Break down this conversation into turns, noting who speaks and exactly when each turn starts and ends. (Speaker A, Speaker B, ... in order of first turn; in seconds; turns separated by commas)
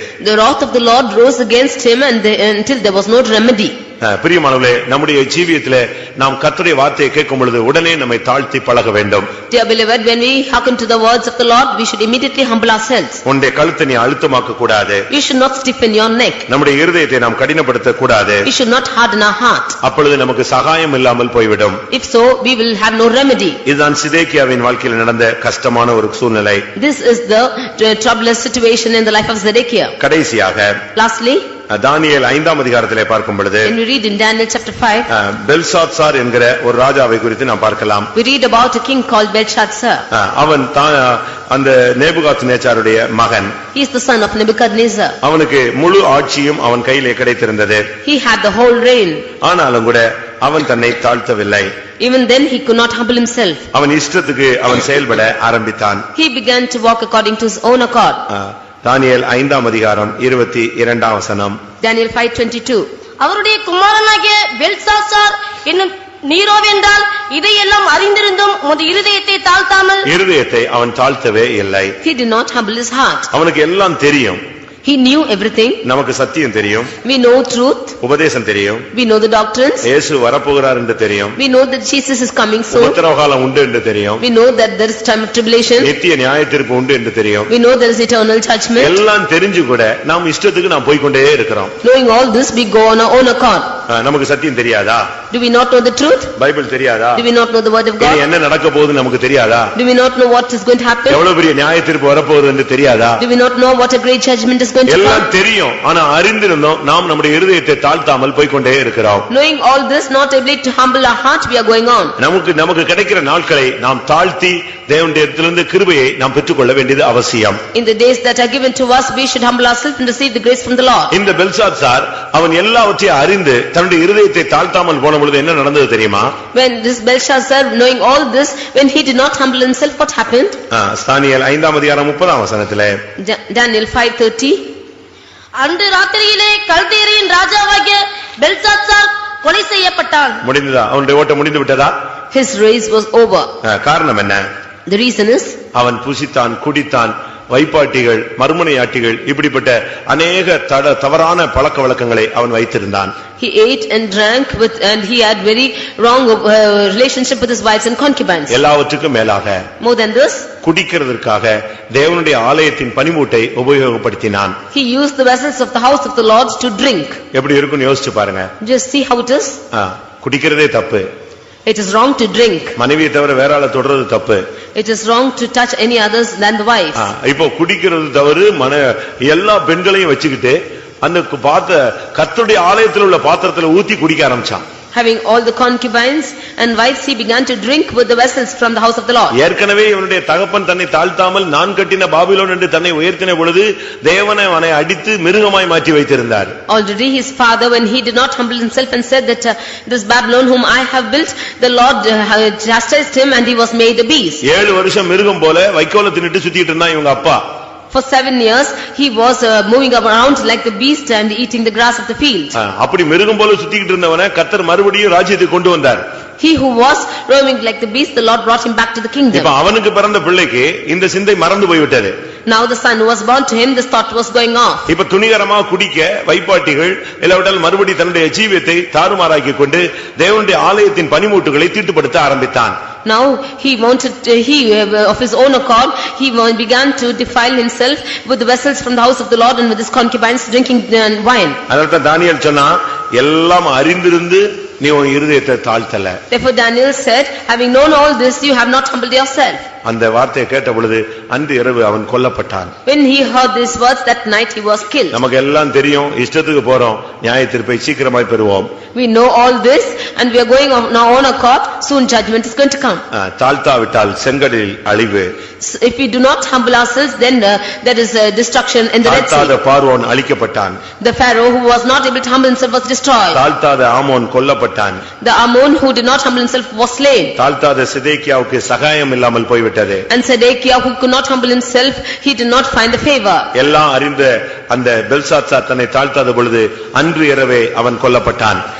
Speaker A: 0.2-3.8, Speaker B: 4.0-9.3, Speaker A: 9.5-13.2, Speaker B: 13.2-15.1, Speaker A: 15.1-16.5, Speaker B: 16.5-18.5, Speaker A: 18.4-19.8, Speaker B: 19.8-21.8, Speaker A: 21.9-23.6, Speaker B: 23.6-26.7, Speaker A: 26.8-29.9, Speaker B: 30.0-30.8, Speaker A: 30.9-31.5, Speaker B: 31.7-33.7, Speaker A: 33.6-35.1, Speaker B: 35.1-38.1, Speaker A: 38.1-40.0, Speaker B: 40.1-43.5, Speaker A: 43.7-45.2, Speaker B: 45.2-47.9, Speaker A: 48.0-49.3, Speaker B: 49.4-51.7, Speaker A: 52.0-53.6, Speaker B: 53.7-56.0, Speaker A: 56.1-58.2, Speaker B: 58.3-61.6, Speaker A: 61.8-62.9, Speaker C: 63.2-70.1, Speaker B: 70.0-72.0, Speaker A: 72.0-73.3, Speaker B: 73.3-74.4, Speaker A: 74.8-75.8, Speaker B: 75.8-76.9, Speaker A: 77.0-78.0, Speaker B: 78.0-78.9, Speaker A: 78.9-79.9, Speaker B: 79.8-81.4, Speaker A: 81.3-83.0, Speaker B: 82.7-84.2, Speaker A: 84.2-85.9, Speaker B: 85.8-87.5, Speaker A: 87.5-89.0, Speaker B: 88.8-91.7, Speaker A: 91.8-93.7, Speaker B: 93.9-95.1, Speaker A: 95.3-96.3, Speaker B: 96.3-97.2, Speaker A: 97.1-98.2, Speaker B: 98.0-99.7, Speaker A: 99.7-101.2, Speaker B: 101.1-103.2, Speaker A: 103.2-105.3, Speaker B: 104.9-109.3, Speaker A: 109.3-112.1, Speaker B: 112.2-117.6, Speaker A: 117.7-121.1, Speaker B: 121.1-126.3, Speaker A: 126.5-130.6, Speaker B: 130.7-133.0, Speaker A: 133.2-134.6, Speaker C: 135.6-140.4, Speaker B: 140.4-141.9, Speaker A: 142.3-143.5, Speaker B: 143.6-144.4, Speaker A: 144.9-145.6, Speaker B: 145.7-153.1, Speaker A: 153.4-158.6, Speaker B: 158.5-159.7, Speaker A: 159.8-160.5, Speaker B: 160.6-164.6, Speaker A: 164.7-167.2, Speaker B: 167.3-168.5, Speaker A: 168.6-169.6, Speaker B: 169.7-171.1, Speaker A: 171.7-172.8, Speaker B: 172.8-174.4, Speaker A: 174.7-177.1, Speaker B: 176.9-184.6, Speaker A: 184.9-189.3, Speaker B: 189.3-196.6, Speaker A: 196.7-204.4, Speaker B: 204.4-207.4, Speaker A: 207.9-212.5, Speaker B: 212.5-216.0, Speaker A: 216.4-219.5, Speaker B: 219.3-222.1, Speaker A: 222.4-224.9, Speaker B: 224.9-232.8, Speaker A: 233.0-241.6, Speaker B: 241.7-246.2, Speaker A: 246.3-249.6, Speaker B: 249.8-252.7, Speaker A: 252.8-255.2, Speaker B: 255.1-258.7, Speaker A: 258.9-263.0, Speaker B: 263.1-265.3, Speaker A: 265.6-269.6, Speaker B: 269.0-270.8, Speaker A: 271.0-273.4, Speaker B: 273.3-275.0, Speaker A: 275.2-277.4, Speaker B: 277.4-280.1, Speaker A: 280.1-283.5, Speaker B: 283.5-288.6